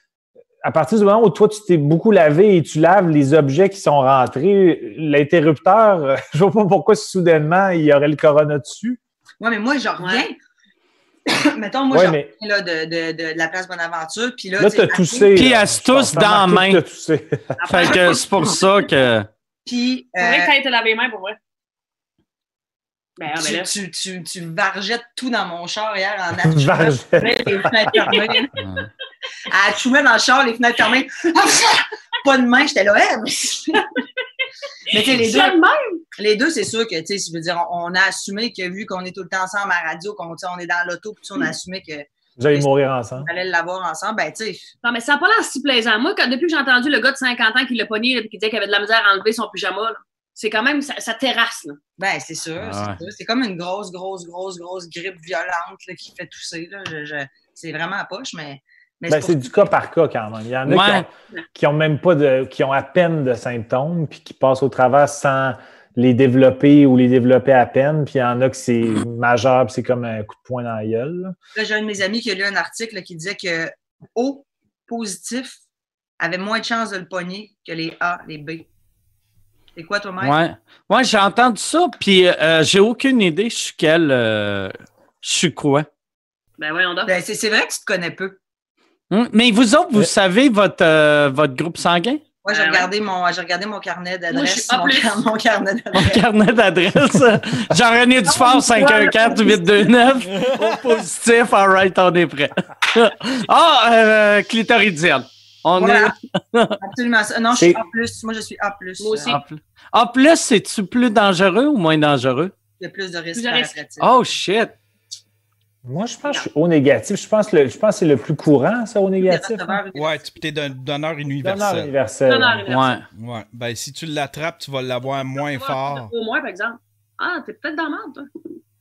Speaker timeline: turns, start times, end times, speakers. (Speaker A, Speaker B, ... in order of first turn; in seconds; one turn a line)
Speaker A: 0.6-9.0
Speaker B: 9.4-10.4
Speaker C: 10.0-10.2
Speaker B: 11.3-15.3
Speaker A: 11.9-12.3
Speaker A: 14.6-17.7
Speaker D: 15.3-16.8
Speaker C: 17.6-18.2
Speaker D: 17.7-19.3
Speaker B: 19.7-20.5
Speaker C: 20.2-21.4
Speaker C: 23.2-23.7
Speaker B: 23.3-28.5
Speaker A: 26.4-27.9
Speaker C: 27.9-28.5
Speaker D: 28.6-28.9
Speaker B: 29.5-33.9
Speaker B: 34.9-35.6
Speaker C: 35.0-36.0
Speaker B: 36.2-42.7
Speaker A: 42.4-43.3
Speaker B: 43.2-44.7
Speaker C: 44.8-51.8
Speaker B: 52.0-59.6
Speaker D: 52.6-53.0
Speaker A: 59.1-71.3
Speaker D: 60.7-61.1
Speaker B: 71.5-75.6
Speaker B: 76.2-78.7
Speaker B: 79.8-80.4
Speaker D: 80.2-85.9
Speaker C: 86.6-87.1
Speaker B: 87.1-88.4
Speaker D: 89.1-92.2
Speaker B: 92.4-96.2
Speaker C: 92.5-92.9
Speaker C: 94.3-95.1
Speaker D: 95.9-106.8
Speaker B: 98.3-99.9
Speaker B: 105.8-106.1
Speaker B: 106.8-109.3
Speaker A: 107.5-107.8
Speaker C: 109.0-109.4
Speaker D: 109.3-112.5
Speaker B: 112.8-114.1
Speaker C: 113.3-113.8
Speaker D: 114.0-114.8
Speaker A: 115.8-119.8
Speaker B: 119.2-120.2
Speaker E: 119.9-121.9
Speaker A: 121.4-122.7
Speaker C: 122.3-123.0
Speaker D: 122.7-123.0
Speaker E: 123.1-126.1
Speaker C: 125.3-128.3